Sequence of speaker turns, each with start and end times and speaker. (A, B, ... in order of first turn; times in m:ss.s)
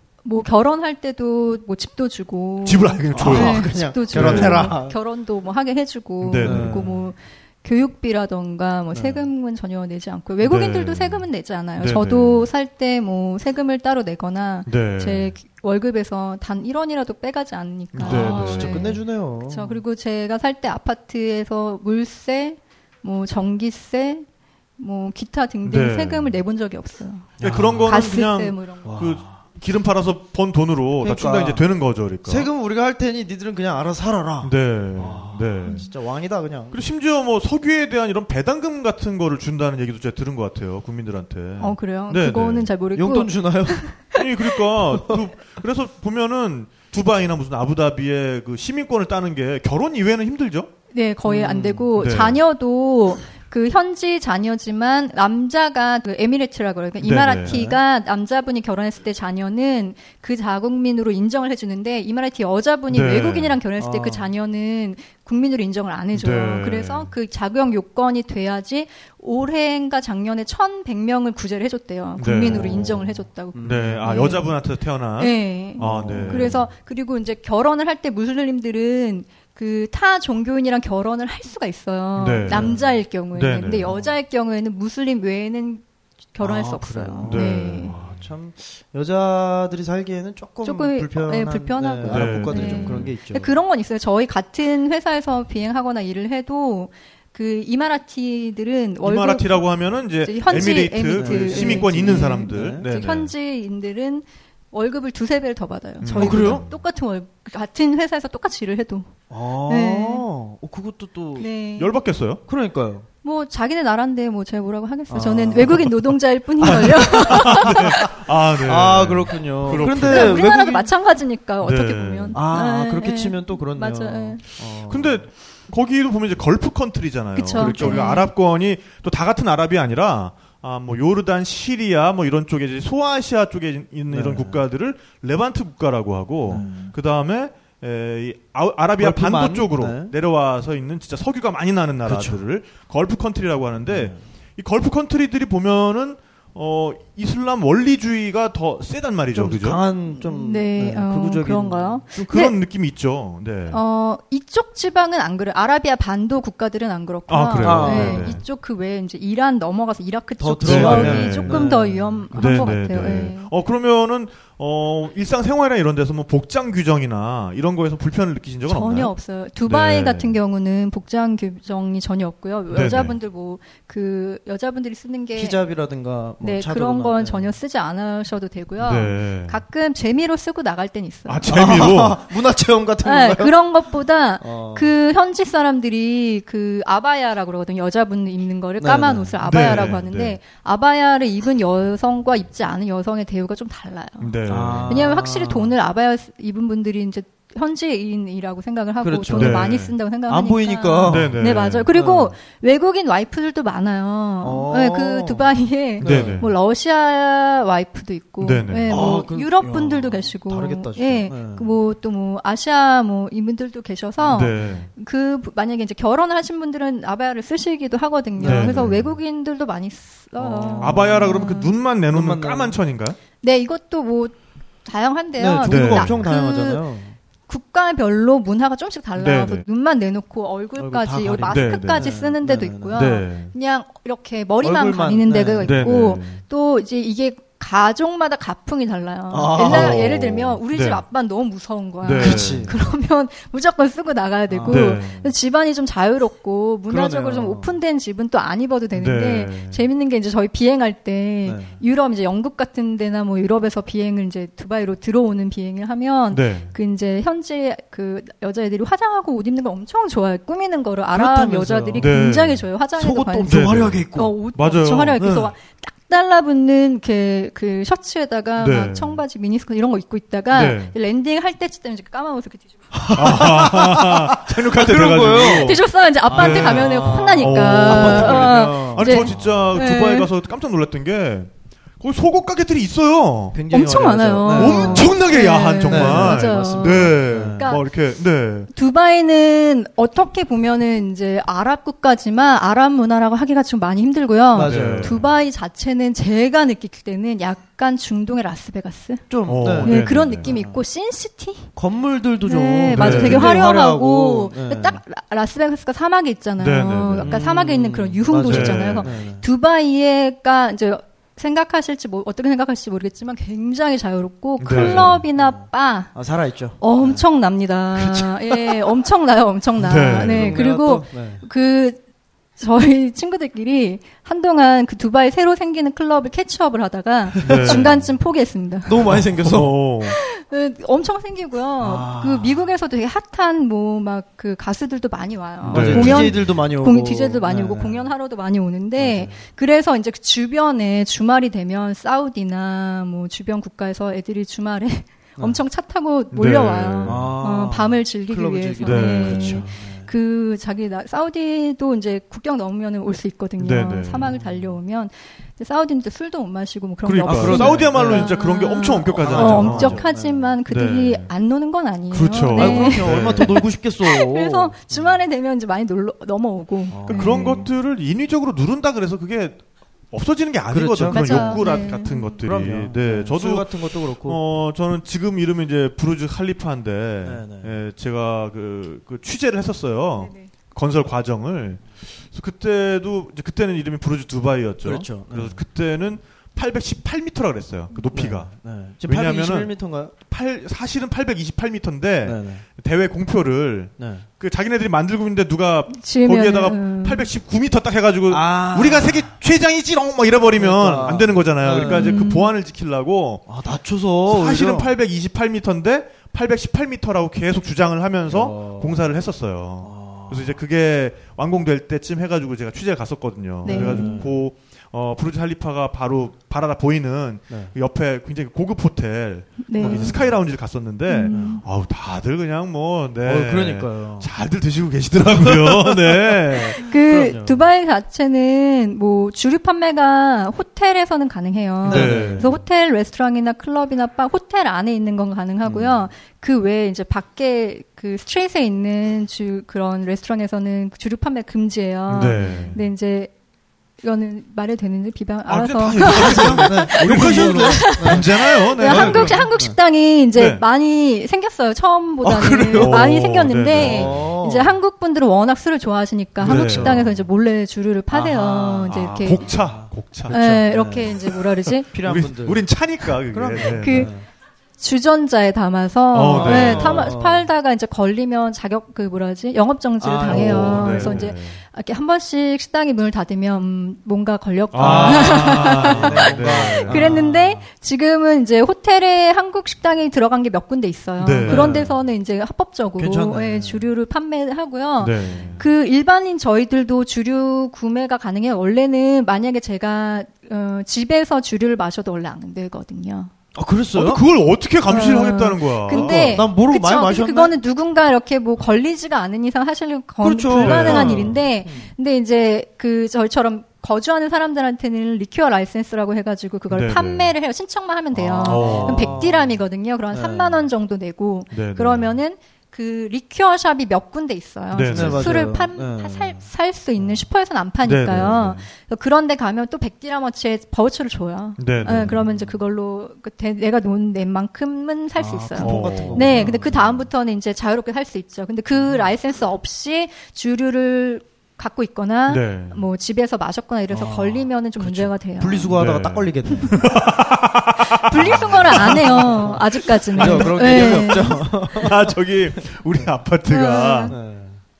0:00.2-0:24.3 A
0:02.6-0:04.7 B
0:03.1-0:05.0 C
0:06.2-0:06.9 B
0:06.4-0:07.1 C
0:08.9-0:09.3 C
0:10.4-0:11.3 B
0:11.8-0:12.5 B
0:14.7-0:15.4 B
0:17.9-0:19.0 B
0:18.0-0:19.8 C
0:24.8-0:27.3 A
0:25.6-0:26.4 B
0:27.4-0:28.2 C
0:27.4-0:32.5 B
0:27.8-0:28.9 A
0:28.8-0:29.4 C
0:31.0-0:31.7 C
0:32.2-0:36.8 C
0:34.4-0:35.8 B
0:36.7-0:42.7 B
0:41.6-0:44.2 A
0:43.0-0:43.9 C
0:44.1-0:50.7 B
0:50.9-1:14.5 A
0:51.2-0:51.9 C
0:52.0-0:52.4 B
0:57.0-0:57.6 B
0:57.4-0:57.8 C
1:02.9-1:03.6 B
1:03.8-1:04.3 C
1:06.1-1:07.1 B
1:12.2-1:13.0 B
1:12.4-1:13.0 C
1:13.5-1:14.4 C
1:13.6-1:16.7 B
1:15.2-1:25.8 A
1:15.8-1:16.7 C
1:22.2-1:22.8 B
1:22.5-1:23.0 C
1:23.3-1:23.9 B
1:26.3-1:27.9 A
1:26.4-1:33.6 C
1:27.3-1:28.2 B
1:30.6-1:39.7 A
1:32.1-1:33.1 B
1:39.0-1:43.3 B
1:40.2-1:49.1 A
1:41.1-1:42.9 C
1:46.0-1:46.8 B
1:46.2-1:46.6 C
1:49.3-1:51.5 C
1:49.7-1:50.3 A
1:51.4-1:52.0 A
1:51.8-1:52.4 B
1:52.5-1:53.1 C
1:53.2-1:58.0 A
1:55.1-1:55.9 C
1:56.6-2:00.9 C
1:56.7-2:00.4 B
1:59.8-2:04.4 A
2:01.6-2:02.4 B
2:02.3-2:05.2 C
2:04.9-2:29.8 B
2:07.4-2:08.3 A
2:07.5-2:08.2 C
2:14.1-2:14.6 C
2:16.5-2:16.9 C
2:19.0-2:20.1 C
2:22.0-2:22.4 C
2:23.9-2:24.2 C
2:29.3-2:32.0 C
2:30.2-2:32.6 A
2:32.2-2:33.8 B
2:33.7-2:43.5 A
2:37.3-2:38.4 B
2:37.6-2:38.4 C
2:40.4-2:42.7 C
2:40.6-2:41.8 B
2:42.3-2:49.1 B
2:48.7-2:55.6 A
2:49.6-2:50.4 B
2:52.7-2:53.2 B
2:55.4-2:57.6 C
2:56.4-3:01.4 A
2:58.8-2:59.6 B
3:01.3-3:02.2 B
3:01.5-3:03.6 C
3:03.0-3:14.3 A
3:04.4-3:04.9 C
3:08.8-3:09.3 C
3:09.4-3:10.4 B
3:14.2-3:15.0 B
3:14.5-3:15.8 C
3:14.8-3:41.7 A
3:19.0-3:21.4 C
3:19.3-3:19.9 B
3:21.1-3:21.9 B
3:21.9-3:22.4 C
3:24.4-3:26.5 C
3:26.0-3:26.5 B
3:28.4-3:29.0 B
3:28.9-3:31.7 C
3:34.3-3:34.9 B
3:38.4-3:38.9 C
3:38.4-3:39.1 B
3:40.4-3:41.5 C
3:40.8-3:43.2 B
3:42.1-3:42.8 C
3:43.4-3:46.8 A
3:45.4-3:47.2 C
3:45.7-3:46.2 B
3:47.5-4:23.6 A
3:49.2-3:49.6 B
3:50.8-3:53.0 C
3:51.5-3:52.2 B
3:53.0-3:53.5 B
3:54.6-3:55.9 C
3:55.6-3:56.4 B
3:59.3-4:00.6 C
3:59.6-4:01.0 B
4:02.0-4:02.8 B
4:02.1-4:02.8 C
4:04.5-4:05.0 C
4:04.7-4:05.3 B
4:06.9-4:07.8 C
4:09.0-4:09.8 B
4:11.4-4:11.8 C
4:16.3-4:16.7 B
4:21.1-4:22.1 C
4:22.0-4:22.7 B
4:23.0-4:24.4 C
4:23.5-4:25.3 B
4:24.1-4:32.7 A
4:25.2-4:25.5 C
4:28.6-4:29.2 B
4:30.5-4:30.9 B
4:32.9-4:39.7 C
4:33.1-4:43.6 B
4:35.4-4:40.3 A
4:43.5-4:45.2 C
4:43.7-4:47.8 A
4:44.5-4:48.7 B
4:45.9-4:47.7 C
4:48.7-5:01.7 A
4:54.5-4:55.2 C
4:54.6-4:55.2 B
4:59.3-5:00.8 C
4:59.5-5:00.5 B
5:01.8-5:05.0 C
5:02.4-5:16.1 A
5:02.9-5:03.6 B
5:06.6-5:07.4 B
5:07.2-5:09.4 C
5:08.4-5:09.1 B
5:14.6-5:15.2 B
5:14.7-5:17.3 C
5:16.8-5:22.0 A
5:17.9-5:18.9 C
5:19.8-5:20.6 B
5:20.0-5:21.4 C
5:22.6-5:29.1 A
5:27.4-5:28.0 C
5:27.4-5:28.0 B
5:28.9-5:29.8 C
5:29.1-5:30.2 B
5:30.1-6:07.6 A
5:31.8-5:32.7 C
5:35.6-5:36.4 B
5:35.7-5:38.1 C
5:39.0-5:39.4 C
5:46.3-5:47.3 B
5:47.0-5:50.1 C
5:48.8-5:49.6 B
5:53.6-5:54.4 B
5:57.0-6:00.0 B
5:57.2-5:58.4 C
5:59.1-6:00.5 C
6:00.7-6:01.3 B
6:02.1-6:03.5 B
6:02.5-6:05.2 C
6:06.9-6:07.7 C
6:07.1-6:09.6 B
6:10.1-6:43.5 B
6:10.7-6:11.7 C
6:11.1-6:12.4 A
6:12.4-6:14.4 C
6:17.2-6:17.7 C
6:20.2-6:20.5 A
6:24.8-6:25.6 C
6:28.1-6:30.1 C
6:32.2-6:32.6 C
6:34.0-6:34.3 C
6:35.9-6:37.3 A
6:38.3-6:39.4 C
6:40.6-6:42.2 C
6:41.8-6:42.5 A
6:43.5-6:44.9 C
6:44.3-7:06.8 B
6:48.3-6:49.0 C
6:49.8-6:50.6 C
6:53.6-6:54.2 A
6:53.7-6:54.4 C
6:59.6-7:00.2 A
6:59.8-7:00.4 C
7:01.1-7:01.6 A
7:01.3-7:01.6 C
7:03.2-7:04.3 C
7:05.3-7:07.7 C
7:06.8-7:23.3 A
7:11.8-7:12.6 C
7:11.9-7:12.6 B
7:15.6-7:16.0 C
7:22.1-7:22.8 B
7:24.0-7:39.5 A
7:25.5-7:29.4 B
7:26.0-7:29.8 C
7:30.4-7:30.6 B
7:32.2-7:33.2 C
7:32.7-7:34.2 B
7:33.7-7:34.8 C
7:36.4-7:37.2 C
7:36.4-7:37.1 B
7:38.1-7:41.3 C
7:38.9-7:40.6 B
7:40.3-7:41.9 A
7:41.8-7:44.2 C
7:41.9-7:44.1 B
7:43.8-7:44.1 A
7:44.8-8:13.3 A
7:46.1-7:47.1 B
7:46.3-7:47.5 C
7:50.0-7:51.3 C
7:50.3-7:51.6 B
7:54.7-7:57.2 B
7:54.8-7:57.6 C
8:01.2-8:01.9 B
8:01.4-8:02.0 C
8:03.0-8:03.9 C
8:05.0-8:05.6 B
8:05.3-8:05.6 C
8:13.5-8:14.2 C
8:14.0-8:16.5 B
8:14.9-8:55.7 A
8:15.9-8:17.6 C
8:20.2-8:21.9 C
8:20.6-8:21.4 B
8:26.7-8:27.4 B
8:28.1-8:29.6 C
8:28.4-8:29.2 B
8:30.1-8:30.7 C
8:31.5-8:32.2 B
8:34.7-8:35.4 B
8:34.9-8:36.5 C
8:37.0-8:37.2 C
8:37.8-8:38.6 B
8:41.6-8:42.2 B
8:41.8-8:42.5 C
8:45.2-8:47.1 C
8:45.6-8:46.6 B
8:48.8-8:49.0 C
8:52.3-8:52.8 B
8:53.9-8:56.9 C
8:55.7-8:59.6 B
8:58.0-9:01.9 A
8:58.1-9:02.2 C
9:00.1-9:04.2 B
9:03.5-9:04.2 A
9:04.1-9:04.6 C